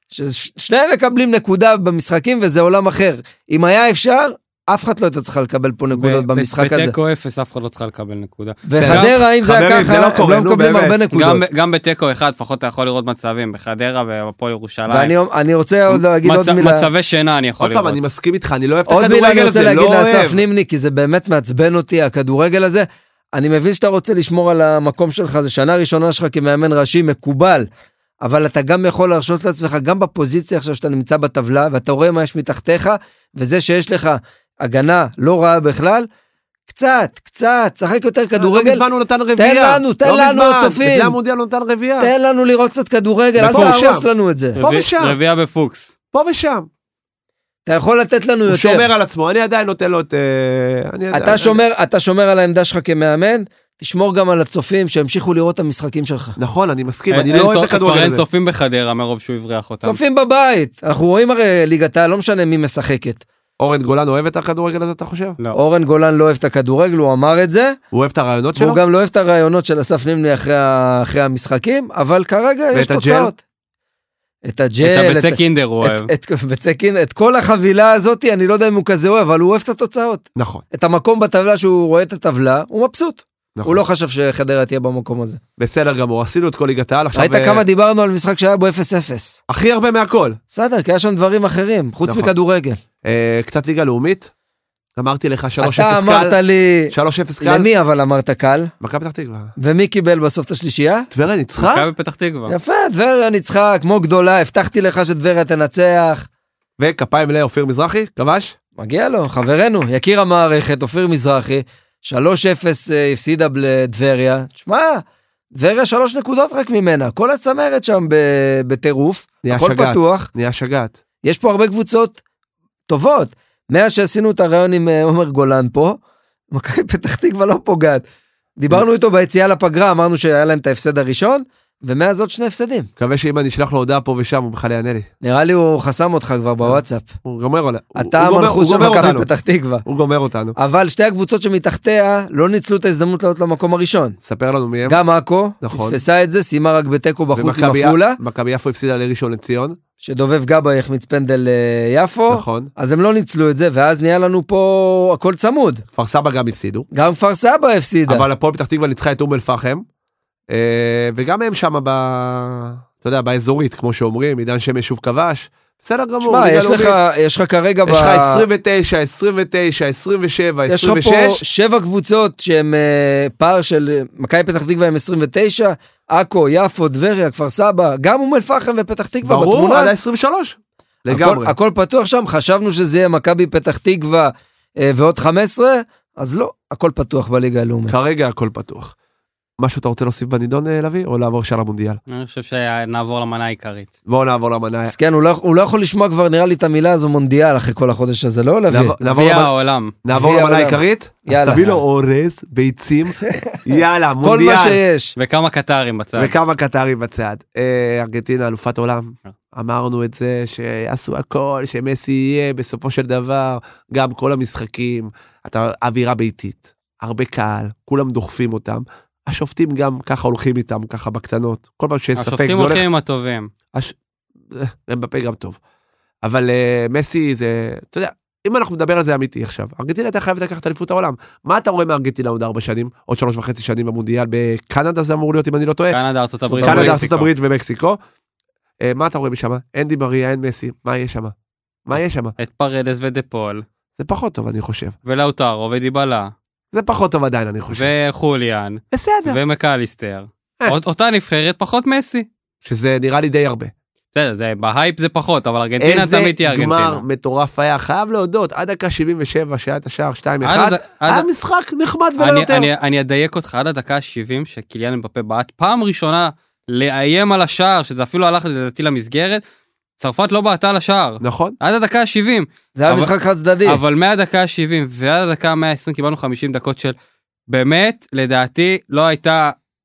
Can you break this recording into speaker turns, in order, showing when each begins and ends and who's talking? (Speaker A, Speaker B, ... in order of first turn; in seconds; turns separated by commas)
Speaker A: 0.1-6.9, Speaker B: 6.0-9.1, Speaker A: 8.7-11.4, Speaker C: 8.8-11.0, Speaker B: 11.1-15.1, Speaker A: 14.9-16.9, Speaker B: 15.9-18.0, Speaker C: 17.6-20.4, Speaker A: 18.9-27.7, Speaker A: 28.2-36.1, Speaker A: 36.7-38.8, Speaker C: 38.4-42.1, Speaker A: 39.4-41.1, Speaker A: 42.0-44.6, Speaker C: 43.4-44.1, Speaker B: 43.4-43.9, Speaker B: 44.6-45.9, Speaker C: 44.6-45.1, Speaker C: 46.1-46.7, Speaker A: 47.6-48.9, Speaker C: 48.5-51.6, Speaker A: 51.1-56.4, Speaker C: 56.4-58.2, Speaker B: 57.1-60.0, Speaker A: 59.8-63.2, Speaker C: 63.6-65.4, Speaker A: 65.5-67.8, Speaker C: 67.9-68.8, Speaker A: 68.6-73.4, Speaker C: 72.7-73.3, Speaker A: 74.4-85.4, Speaker B: 74.8-76.1, Speaker C: 80.3-80.6, Speaker C: 83.5-83.8, Speaker C: 85.6-87.6, Speaker A: 87.1-89.4, Speaker C: 89.5-90.4, Speaker A: 90.5-92.8, Speaker C: 92.0-92.3, Speaker C: 93.0-94.3, Speaker C: 95.0-96.4, Speaker A: 95.6-98.7, Speaker C: 96.9-97.7, Speaker C: 98.8-99.5, Speaker A: 99.6-101.1, Speaker C: 101.1-101.9, Speaker B: 101.6-102.5, Speaker A: 102.5-106.3, Speaker C: 106.8-108.5, Speaker A: 108.8-115.0, Speaker A: 115.5-120.3, Speaker C: 119.4-121.0, Speaker A: 121.2-122.2, Speaker A: 122.9-126.0, Speaker A: 126.5-128.0, Speaker A: 128.6-132.9, Speaker C: 133.0-135.1, Speaker A: 135.2-137.1, Speaker C: 136.6-139.3, Speaker A: 137.9-139.8, Speaker C: 139.8-140.6, Speaker A: 140.6-144.2, Speaker C: 144.2-145.0, Speaker A: 144.8-148.2, Speaker C: 145.6-146.0, Speaker C: 147.3-149.8, Speaker A: 150.0-155.8, Speaker C: 152.3-152.7, Speaker C: 155.9-156.9, Speaker A: 156.9-158.2, Speaker C: 158.1-159.8, Speaker C: 160.5-167.0, Speaker A: 166.2-168.4, Speaker C: 167.8-171.4, Speaker A: 170.7-179.9, Speaker C: 179.2-181.5, Speaker A: 181.1-187.9, Speaker C: 187.9-188.9, Speaker C: 189.6-192.0, Speaker B: 192.1-193.9, Speaker C: 194.1-194.9, Speaker A: 194.9-198.9, Speaker C: 198.7-199.5, Speaker B: 199.0-199.9, Speaker C: 200.0-204.8, Speaker A: 200.1-201.8, Speaker A: 203.3-203.6, Speaker A: 204.2-205.1, Speaker B: 205.2-206.3, Speaker C: 206.2-222.8, Speaker B: 222.2-223.5, Speaker C: 224.5-225.6, Speaker C: 226.2-236.0, Speaker B: 235.9-237.3, Speaker A: 236.5-237.0, Speaker C: 236.6-238.0, Speaker C: 238.8-241.3, Speaker C: 241.8-242.3, Speaker B: 242.4-243.6, Speaker C: 244.0-244.9, Speaker B: 245.1-246.3, Speaker C: 246.7-247.9, Speaker B: 247.7-252.2, Speaker C: 248.9-249.4, Speaker C: 252.6-253.7, Speaker B: 254.1-257.0, Speaker C: 255.8-262.7, Speaker B: 260.4-261.3, Speaker B: 262.2-269.4, Speaker B: 270.0-273.1, Speaker C: 271.2-271.6, Speaker A: 272.8-273.8, Speaker B: 273.6-276.9, Speaker B: 277.5-279.6